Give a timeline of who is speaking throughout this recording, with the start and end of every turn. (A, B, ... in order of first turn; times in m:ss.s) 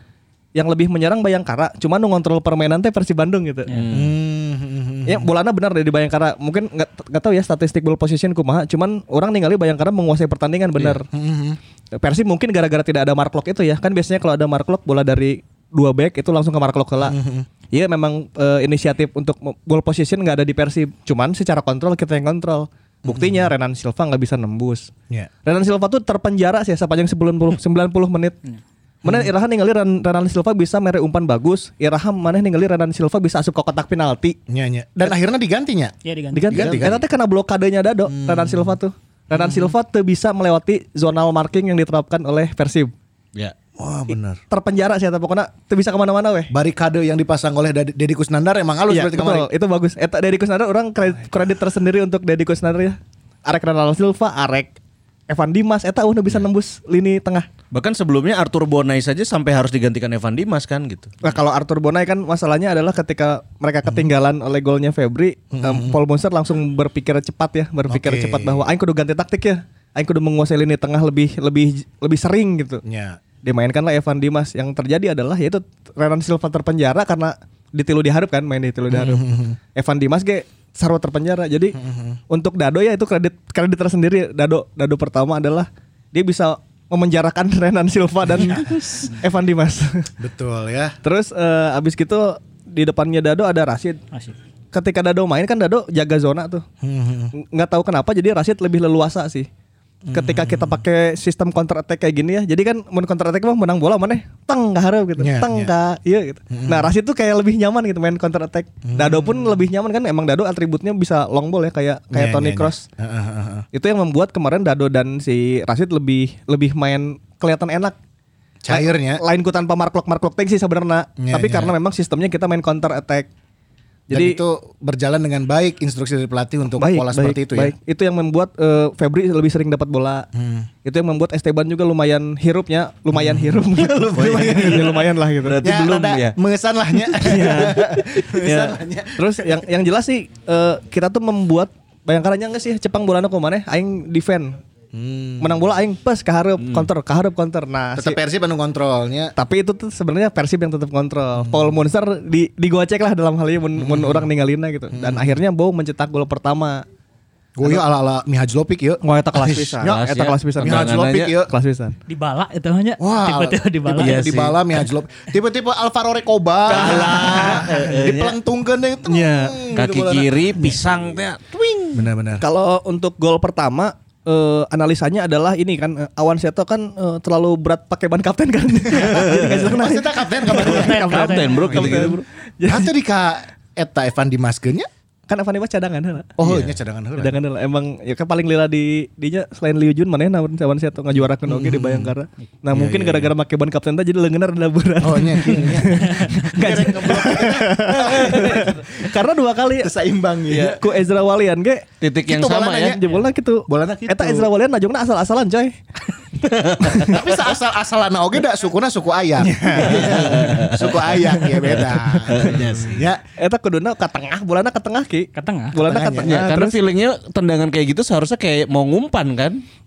0:00.5-0:03.8 A
0:03.7-0:04.2 B
0:03.9-0:05.3 C
0:05.0-0:11.1 A
0:11.1-0:11.6 C
0:11.9-0:17.2 A
0:17.0-0:17.5 C
0:17.7-0:24.9 A
0:23.0-0:23.5 C
0:25.4-0:28.4 A
0:29.0-0:29.3 C
0:29.0-0:34.4 A
0:34.5-0:35.9 C
0:36.0-0:36.7 D
0:36.3-0:42.9 A
0:36.5-0:37.0 C
0:38.1-0:38.8 C
0:39.3-0:39.7 C
0:43.8-0:44.4 C
0:44.5-0:46.5 A
0:46.5-0:49.5 C
0:48.9-0:54.8 A
0:55.3-0:57.5 A
0:57.7-1:01.2 B
1:01.2-1:12.8 A
1:05.5-1:06.0 C
1:07.9-1:08.6 C
1:12.8-1:13.2 C
1:13.4-1:30.1 A
1:18.9-1:19.6 C
1:21.8-1:22.2 C
1:28.5-1:28.8 C
1:30.2-1:31.0 C
1:31.0-1:34.0 A
1:34.7-1:36.6 A
1:36.8-1:37.3 C
1:37.3-1:39.5 A
1:40.0-1:40.8 C
1:40.1-1:52.9 A
1:45.2-1:45.7 C
1:46.5-1:46.9 C
1:48.8-1:49.5 C
1:52.1-1:53.6 C
1:53.7-1:58.0 A
1:58.6-1:59.2 C
1:58.7-2:03.3 A
2:01.2-2:01.8 C
2:04.1-2:04.4 A
2:04.1-2:07.7 C
2:06.8-2:10.3 A
2:10.3-2:10.7 C
2:10.8-2:15.6 A
2:13.1-2:19.6 C
2:15.4-2:16.4 B
2:17.1-2:18.2 A
2:18.4-2:18.8 B
2:19.2-2:24.6 A
2:24.9-2:25.6 C
2:25.4-2:28.2 A
2:26.6-2:26.9 B
2:27.9-2:29.3 C
2:29.4-2:36.8 A
2:31.4-2:31.7 C
2:33.8-2:34.2 C
2:34.9-2:35.4 C
2:37.6-2:40.0 C
2:39.0-2:42.0 A
2:39.5-2:41.4 B
2:40.6-2:41.5 C
2:42.1-2:44.3 D
2:43.0-2:50.9 C
2:43.9-2:44.6 B
2:46.7-2:48.4 B
2:46.7-2:47.8 A
2:49.0-2:49.7 A
2:49.8-2:52.1 B
2:51.9-2:52.4 C
2:52.4-3:02.9 A
2:58.9-2:59.7 B
2:59.4-3:04.9 C
3:00.5-3:02.2 B
3:00.6-3:01.9 D
3:05.3-3:06.4 A
3:06.4-3:07.4 C
3:06.4-3:06.7 B
3:07.2-3:19.9 A
3:11.4-3:12.1 C
3:12.7-3:13.3 C
3:15.0-3:19.1 C
3:16.2-3:16.7 D
3:19.8-3:20.9 C
3:20.5-3:21.9 A
3:22.0-3:23.0 B
3:22.2-3:23.0 C
3:22.9-3:25.8 A
3:23.7-3:24.5 C
3:26.4-3:27.1 B
3:26.8-3:27.2 A
3:27.0-3:33.2 C
3:29.4-3:30.7 A
3:29.9-3:31.1 B
3:31.2-3:32.2 A
3:32.3-3:33.0 B
3:33.4-3:36.8 A
3:35.4-3:35.8 D
3:35.8-3:36.5 C
3:36.2-3:39.6 B